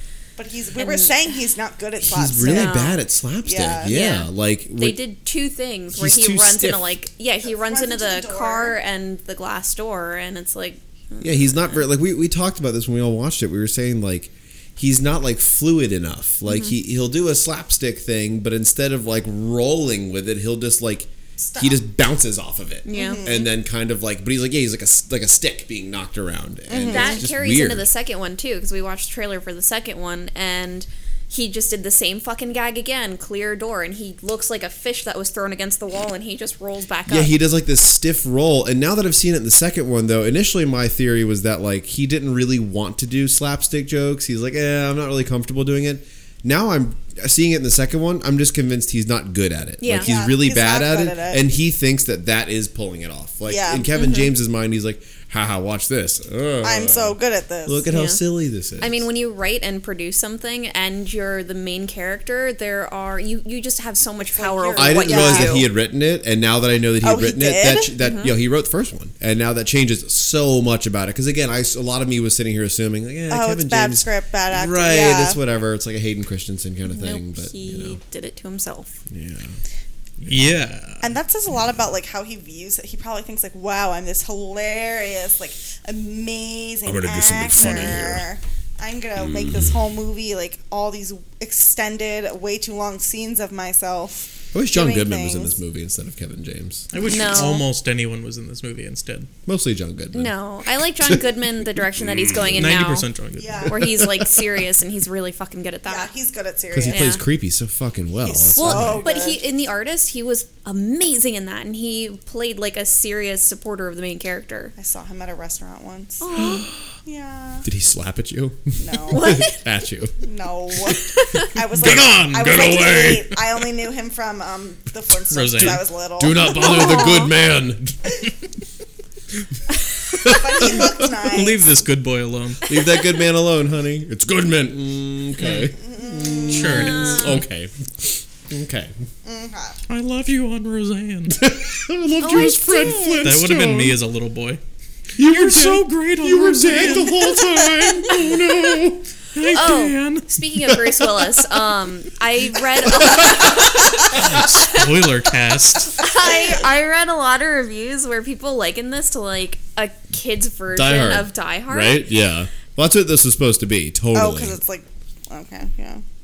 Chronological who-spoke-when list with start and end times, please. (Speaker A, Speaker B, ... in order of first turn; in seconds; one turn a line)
Speaker A: 0.4-2.9
Speaker B: 0.8-1.1
Speaker C: 2.0-5.0
Speaker B: 2.4-3.0
Speaker A: 3.4-3.9
Speaker B: 3.9-11.8
Speaker C: 5.9-7.0
Speaker A: 7.4-8.8
Speaker C: 11.2-27.9
Speaker B: 16.5-16.7
Speaker A: 21.4-21.8
Speaker B: 22.8-23.4
Speaker A: 22.9-23.5
Speaker A: 26.7-27.2
Speaker B: 26.9-37.3
Speaker C: 37.1-59.1
Speaker B: 49.8-50.1
Speaker A: 49.9-51.4
Speaker A: 53.5-53.9
Speaker B: 54.0-54.3
Speaker A: 56.6-57.9
Speaker B: 57.9-58.2
Speaker B: 58.8-65.7
Speaker A: 64.3-65.7
Speaker C: 64.8-74.1
Speaker A: 67.0-67.9
Speaker B: 68.0-68.3
Speaker A: 73.3-75.4
Speaker D: 74.5-75.1
Speaker C: 74.7-78.0
Speaker B: 76.8-79.0
Speaker C: 79.1-79.6
Speaker D: 80.2-81.1
Speaker A: 81.0-95.5
Speaker C: 86.8-88.3
Speaker B: 87.6-87.8
Speaker C: 89.2-89.8
Speaker C: 94.5-96.9
Speaker D: 96.9-99.3
Speaker B: 97.0-97.7
Speaker C: 99.5-100.3
Speaker B: 100.1-103.1
Speaker C: 101.0-102.8
Speaker D: 102.5-103.7
Speaker A: 103.3-104.0
Speaker B: 103.6-106.1
Speaker A: 105.8-107.2
Speaker C: 106.7-109.1
Speaker B: 106.9-107.2
Speaker A: 108.2-109.4
Speaker B: 108.5-114.7
Speaker A: 114.8-116.2
Speaker B: 116.2-116.7
Speaker A: 117.0-117.7
Speaker C: 117.6-120.2
Speaker A: 118.8-119.5
Speaker B: 119.1-119.6
Speaker A: 120.2-126.5
Speaker D: 121.8-123.4
Speaker D: 125.3-125.9
Speaker C: 125.6-128.2
Speaker B: 126.5-127.3
Speaker C: 130.2-131.1
Speaker A: 130.2-131.7
Speaker D: 131.2-132.7
Speaker C: 132.7-138.9
Speaker D: 135.4-135.7
Speaker A: 135.8-136.9
Speaker D: 136.5-137.4
Speaker B: 136.7-137.4
Speaker A: 139.2-139.8
Speaker D: 139.9-141.4
Speaker C: 141.3-144.0
Speaker B: 142.2-143.3
Speaker D: 143.2-144.6
Speaker C: 145.2-149.0
Speaker D: 145.2-147.9
Speaker D: 149.3-151.4
Speaker B: 149.5-154.8
Speaker C: 152.9-154.4
Speaker D: 154.1-156.0
Speaker B: 156.0-162.1
Speaker A: 156.2-156.6
Speaker C: 160.7-164.6
Speaker A: 164.1-166.0